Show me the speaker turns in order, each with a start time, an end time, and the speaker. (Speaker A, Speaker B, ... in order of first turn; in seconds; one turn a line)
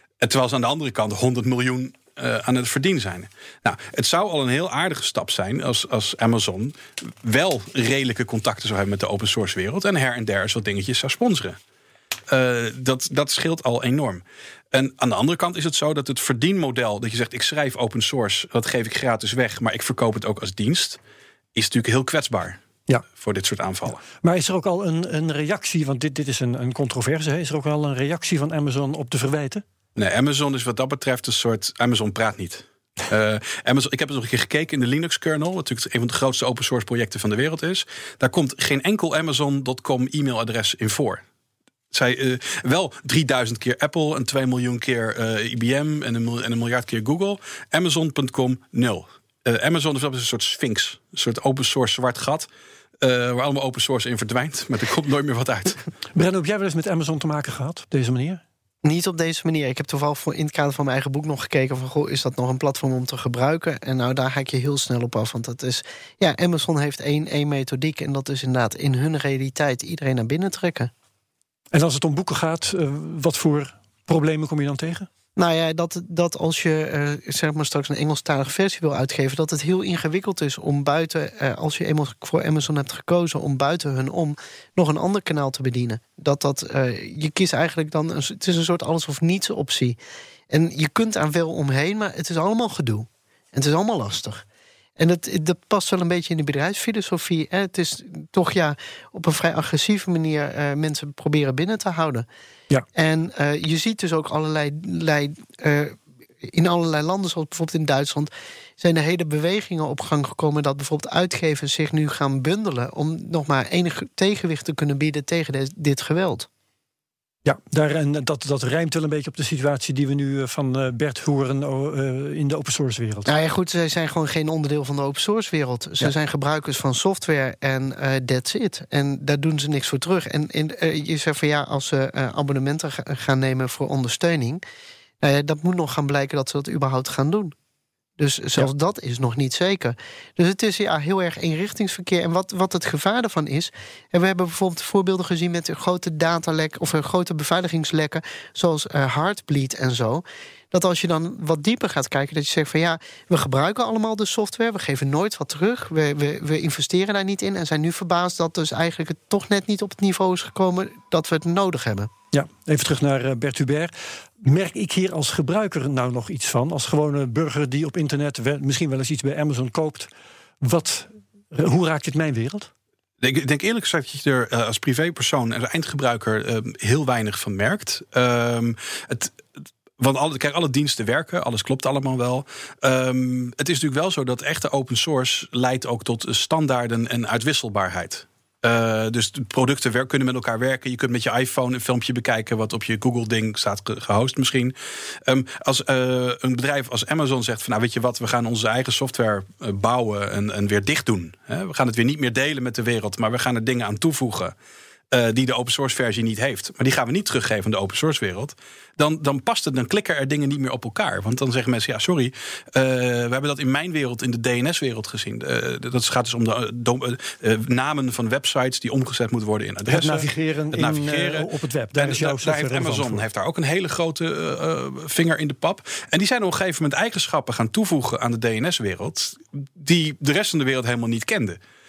Speaker A: 0.2-11.6
Speaker A: 12.3-21.0
Speaker A: 21.6-22.6
Speaker A: 23.2-24.0
Speaker B: 24.1-29.6
Speaker A: 29.9-41.2
Speaker A: 41.9-52.5
Speaker A: 53.0-55.8
Speaker B: 56.1-58.4
Speaker C: 58.8-70.9
Speaker B: 71.7-75.1
Speaker C: 75.4-90.0
Speaker C: 90.5-94.4
Speaker C: 95.0-102.3
Speaker C: 102.9-116.5
Speaker B: 117.4-123.3
Speaker C: 123.3-134.6
Speaker C: 135.2-137.6
Speaker C: 138.2-162.1
Speaker B: 162.3-170.1
Speaker B: 170.6-172.7
Speaker A: 173.2-179.3
Speaker A: 180.0-204.5
Speaker A: 205.1-231.6
Speaker B: 219.8-223.2